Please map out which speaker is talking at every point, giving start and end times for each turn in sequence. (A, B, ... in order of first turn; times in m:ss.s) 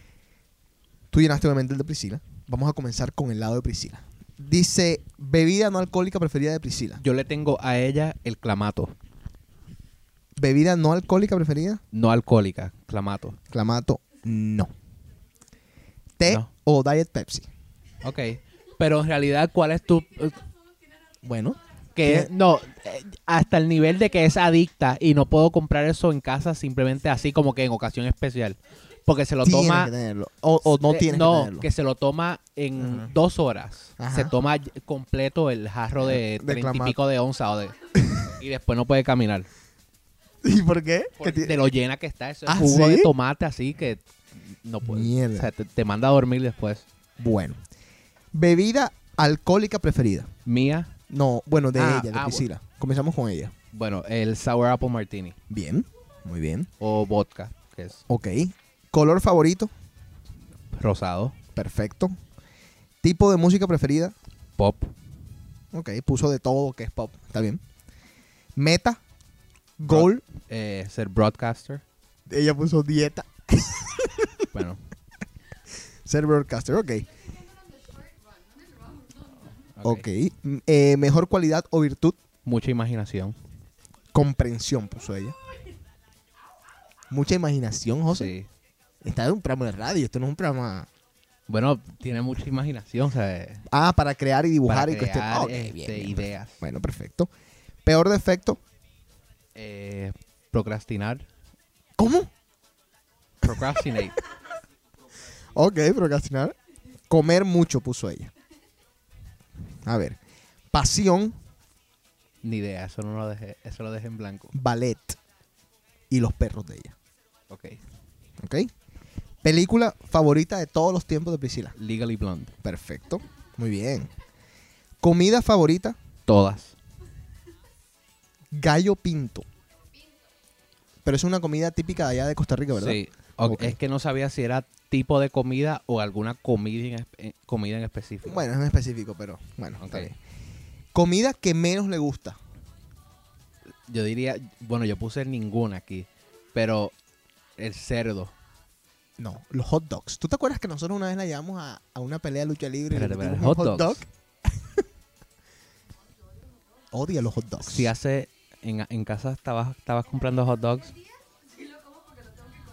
0:01.1-0:07.0 A
0:07.0-0:08.9 B
0:10.4-0:11.8 A
0:11.9-0:13.4 B
0:13.5-0:14.7 A
0:16.2-0:17.5 A
0:18.0-0:20.4 B
0:21.2-0:22.3 A
0:22.0-0:29.9 B
0:29.4-0:31.7 A
0:30.8-0:39.5 B
0:32.8-0:33.1 A
0:34.0-0:34.3 A
0:36.0-0:37.0 A
0:40.4-0:41.6 A
0:41.2-0:46.9 B
0:42.5-0:43.1 A
0:44.8-0:45.5 A
0:47.2-0:47.6 A
0:48.3-0:50.3 A
0:50.5-0:51.0 B
0:51.1-0:53.5 A
0:51.8-0:52.5 B
0:53.7-0:55.4 B
0:55.5-0:56.7 A
0:56.8-0:58.0 B
0:58.1-0:59.7 A
1:00.7-1:01.4 B
1:01.6-1:02.2 A
1:03.0-1:04.2 A
1:04.6-1:04.9 B
1:05.7-1:07.6 A
1:08.6-1:09.0 A
1:09.8-1:10.2 A
1:09.9-1:11.8 B
1:12.3-1:14.3 A
1:14.5-1:14.8 B
1:16.1-1:17.1 A
1:19.8-1:20.1 B
1:19.8-1:22.2 A
1:22.4-1:23.4 B
1:24.1-1:25.4 A
1:27.1-1:28.3 A
1:28.1-1:28.5 B
1:29.0-1:30.9 A
1:31.5-1:33.6 B
1:33.7-1:37.3 A
1:34.7-1:36.6 B
1:37.8-1:38.6 A
1:39.6-1:41.3 B
1:42.0-1:42.3 A
1:43.4-1:44.2 B
1:45.6-1:46.6 A
1:47.1-1:48.3 A
1:49.8-1:50.2 A
1:50.7-1:51.4 A
1:52.4-1:54.5 B
1:54.5-1:55.2 A
1:56.1-1:57.0 A
1:57.5-1:57.8 B
1:58.4-1:58.7 A
1:59.4-2:01.8 A
2:01.8-2:02.6 B
2:02.6-2:04.1 A
2:05.0-2:06.0 A
2:06.3-2:06.8 B
2:08.5-2:09.5 A
2:11.0-2:13.8 A
2:12.8-2:18.4 B
2:18.2-2:20.2 A
2:19.8-2:20.1 B
2:20.9-2:22.4 A
2:23.9-2:26.9 B
2:27.6-2:28.3 B
2:29.2-2:34.1 A
2:32.9-2:34.0 B
2:36.9-2:37.9 A
2:37.6-2:40.9 B